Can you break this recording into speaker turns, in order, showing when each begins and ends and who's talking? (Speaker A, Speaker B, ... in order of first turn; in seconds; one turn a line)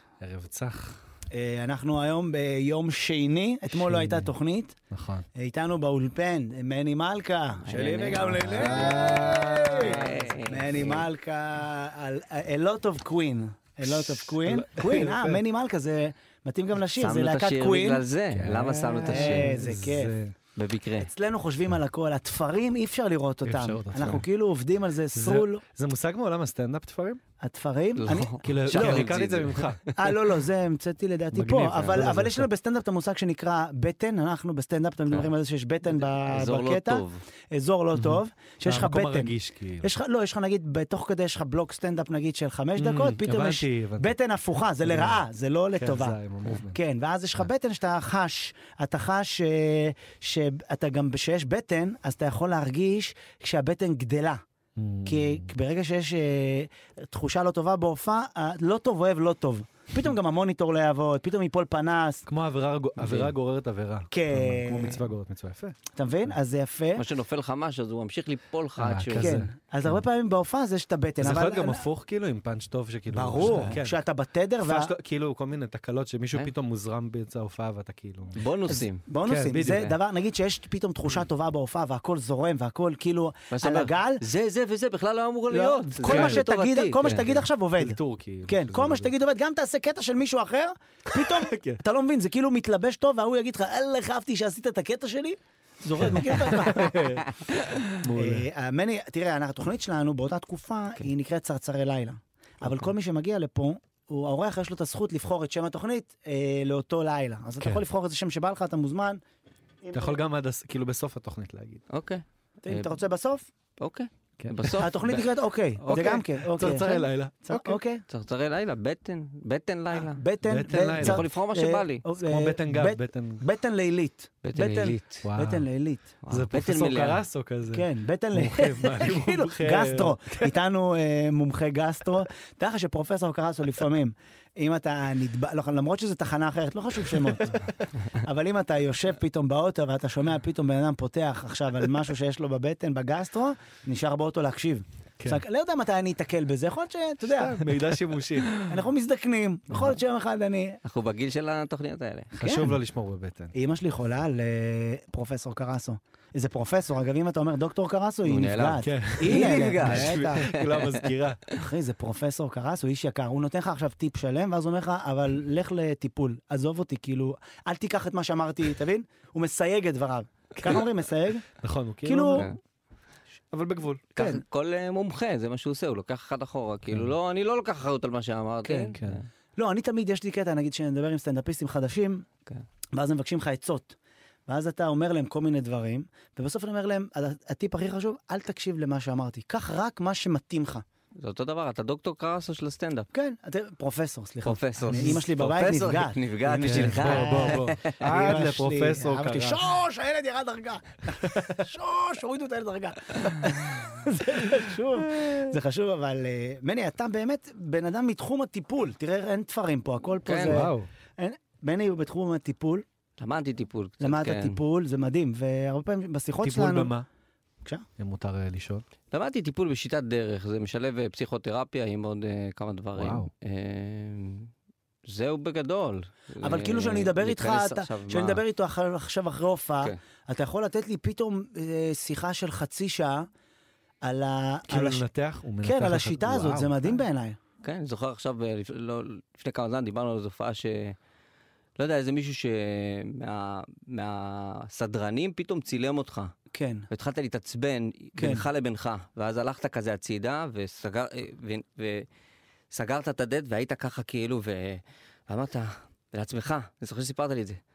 Speaker A: 0.2-1.0
Speaker B: 1.3-4.8
Speaker A: 3.7-4.3
Speaker A: 4.9-5.2
Speaker B: 5.4-18.0
Speaker C: 7.7-11.1
Speaker A: 8.1-10.1
Speaker A: 13.8-15.4
Speaker C: 16.9-19.5
Speaker A: 18.3-20.4
Speaker B: 19.1-20.1
Speaker C: 20.6-21.1
Speaker B: 21.0-25.6
Speaker A: 23.4-24.3
Speaker A: 25.1-27.2
Speaker B: 27.4-29.1
Speaker C: 28.0-30.1
Speaker A: 28.4-29.8
Speaker B: 29.9-46.2
Speaker A: 31.3-32.5
Speaker C: 35.9-37.2
Speaker A: 38.0-39.9
Speaker A: 42.8-44.2
Speaker A: 44.8-45.2
Speaker A: 45.7-46.8
Speaker B: 46.7-54.4
Speaker A: 54.8-55.5
Speaker B: 55.0-62.3
Speaker A: 62.3-66.3
Speaker C: 63.0-63.3
Speaker B: 64.1-65.0
Speaker B: 65.9-67.0
Speaker C: 67.0-69.4
Speaker A: 68.8-70.0
Speaker B: 69.2-71.8
Speaker A: 71.2-74.0
Speaker B: 73.1-74.9
Speaker A: 74.6-78.4
Speaker C: 78.3-79.0
Speaker B: 78.7-84.2
Speaker A: 79.2-80.0
Speaker C: 83.5-87.2
Speaker B: 85.5-97.2
Speaker A: 86.0-86.4
Speaker A: 87.0-89.1
Speaker A: 91.1-91.8
Speaker A: 96.0-97.2
Speaker B: 98.0-109.2
Speaker A: 98.0-98.5
Speaker B: 109.8-110.2
Speaker A: 109.9-111.8
Speaker C: 111.9-112.9
Speaker B: 112.6-113.5
Speaker C: 113.8-116.2
Speaker A: 114.4-114.8
Speaker B: 114.8-118.0
Speaker A: 115.9-117.8
Speaker C: 118.1-120.2
Speaker B: 119.9-126.1
Speaker A: 120.4-121.2
Speaker C: 121.0-122.0
Speaker A: 122.2-123.4
Speaker C: 124.4-125.2
Speaker A: 125.2-125.7
Speaker C: 126.2-127.2
Speaker A: 126.3-130.5
Speaker B: 127.7-147.6
Speaker A: 137.1-137.7
Speaker A: 147.2-148.7
Speaker B: 148.6-150.8
Speaker C: 150.8-152.3
Speaker A: 152.3-153.5
Speaker B: 152.4-152.8
Speaker B: 153.5-160.5
Speaker C: 158.2-161.6
Speaker A: 158.8-161.5
Speaker B: 161.5-171.4
Speaker A: 171.6-172.5
Speaker B: 172.0-172.5
Speaker A: 173.5-174.1
Speaker C: 174.2-179.3
Speaker B: 174.2-174.4
Speaker A: 176.9-177.1
Speaker A: 178.7-179.2
Speaker B: 179.6-182.2
Speaker B: 182.9-183.9
Speaker B: 184.5-190.8
Speaker C: 191.2-193.1
Speaker B: 193.1-212.8
Speaker C: 194.4-198.0
Speaker A: 194.8-195.2
Speaker A: 196.5-199.7
Speaker C: 210.2-210.7
Speaker A: 210.4-210.9
Speaker C: 213.2-214.6
Speaker B: 214.0-216.9
Speaker A: 216.4-217.1
Speaker A: 218.0-218.8
Speaker C: 219.1-224.5
Speaker A: 222.9-223.3
Speaker C: 225.1-228.4
Speaker B: 226.4-233.3
Speaker B: 234.0-235.0
Speaker A: 234.7-236.9
Speaker B: 235.6-237.4
Speaker C: 237.6-240.9
Speaker C: 241.8-246.3
Speaker B: 246.5-246.8
Speaker C: 246.9-252.1
Speaker B: 248.2-248.4
Speaker C: 252.7-257.6